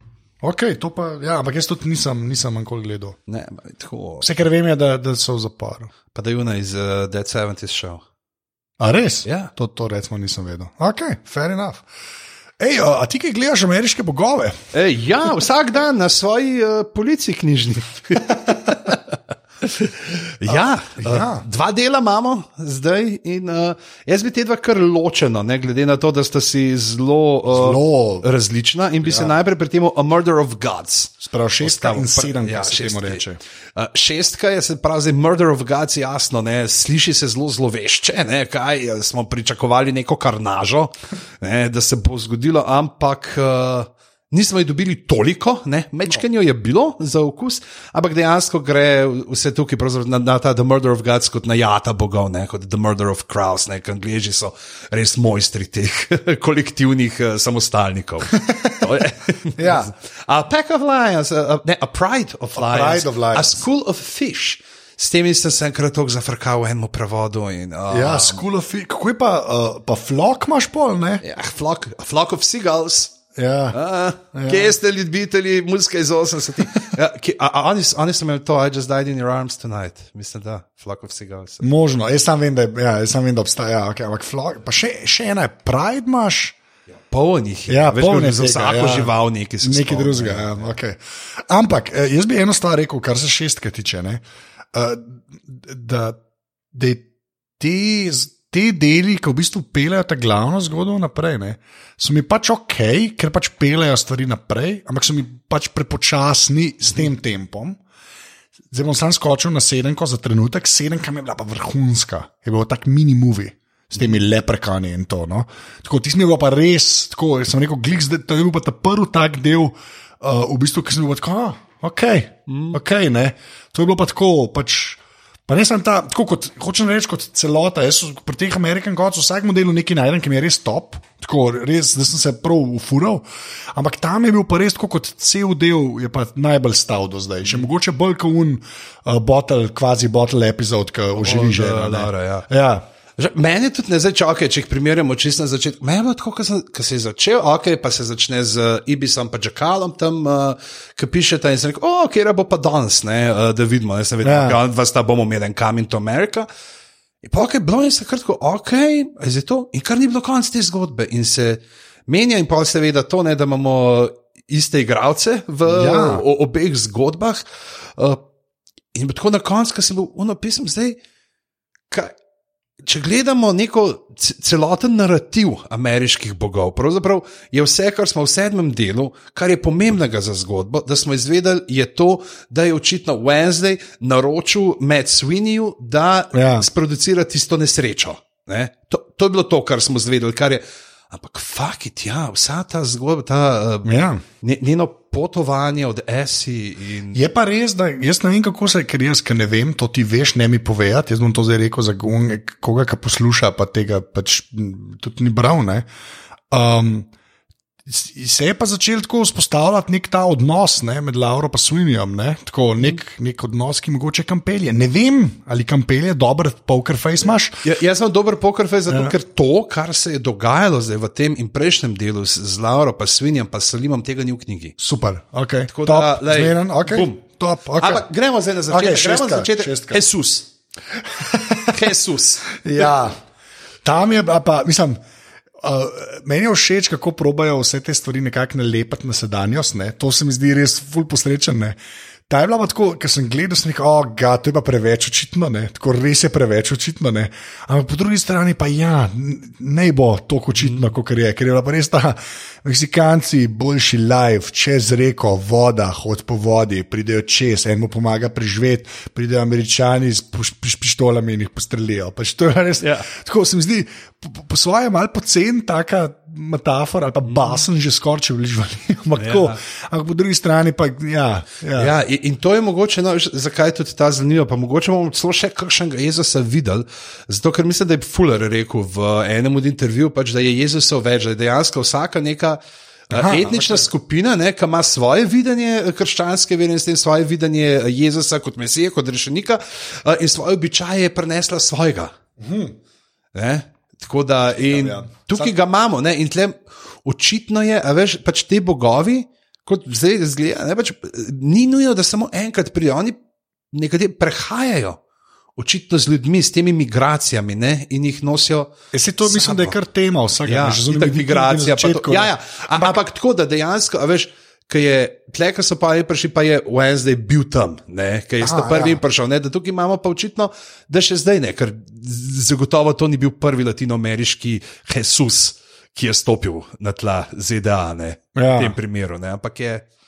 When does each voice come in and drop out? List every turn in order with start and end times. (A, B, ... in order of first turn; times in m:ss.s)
0:00.4-0:03.2 A
0:03.3-0:04.3 B
0:04.2-0:05.9 A
0:06.1-0:08.0 B
0:08.8-0:11.8 A
0:09.2-0:09.5 B
0:12.6-0:14.6 A
0:14.7-0:33.2 B
0:20.5-0:21.4 A
0:27.5-0:28.3 A
0:29.0-0:29.3 A
0:31.2-0:33.4 A
0:33.8-1:08.4 B
0:58.3-0:59.0 A
0:59.6-0:59.9 A
1:02.6-1:03.6 A
1:07.9-1:11.2 A
1:11.2-1:13.2 B
1:13.3-1:13.8 A
1:13.7-1:21.6 B
1:14.3-1:14.8 A
1:21.6-1:26.6 A
1:27.1-1:30.7 B
1:27.7-1:36.2 A
1:36.7-1:37.0 A
1:37.6-1:47.8 A
1:48.7-2:22.8 A
2:02.5-2:02.8 B
2:21.2-2:22.4 B
2:23.2-2:36.5 B
2:34.2-2:34.6 A
2:37.2-2:47.4 B
2:45.6-2:46.2 A
2:48.9-2:51.0 B
2:51.9-2:52.1 B
2:52.8-3:17.2 B
3:06.3-3:06.7 A
3:13.8-3:14.2 A
3:17.1-3:25.9 A
3:26.5-3:27.1 A
3:27.9-3:37.6 A
3:37.6-3:44.8 B
3:38.9-3:39.1 A
3:44.8-3:48.0 A
3:45.7-3:47.2 B
3:47.8-3:50.5 B
3:48.7-3:50.0 A
3:51.1-3:51.9 A
3:51.7-3:52.9 B
3:52.5-3:53.2 A
3:53.8-3:55.0 A
3:55.6-4:01.8 A
4:02.3-4:31.9 A
4:22.8-4:23.1 B
4:27.2-4:27.6 B
4:29.2-4:29.6 B
4:31.8-4:52.1 B
4:43.1-4:43.8 A
4:52.4-4:52.8 A
4:53.3-5:03.2 B
4:54.6-4:55.5 A
5:03.7-5:05.0 B
5:05.6-5:08.7 B
5:08.9-5:13.0 A
5:09.2-5:09.7 B
5:10.4-5:29.8 B
5:18.4-5:19.0 A
5:28.4-5:28.8 A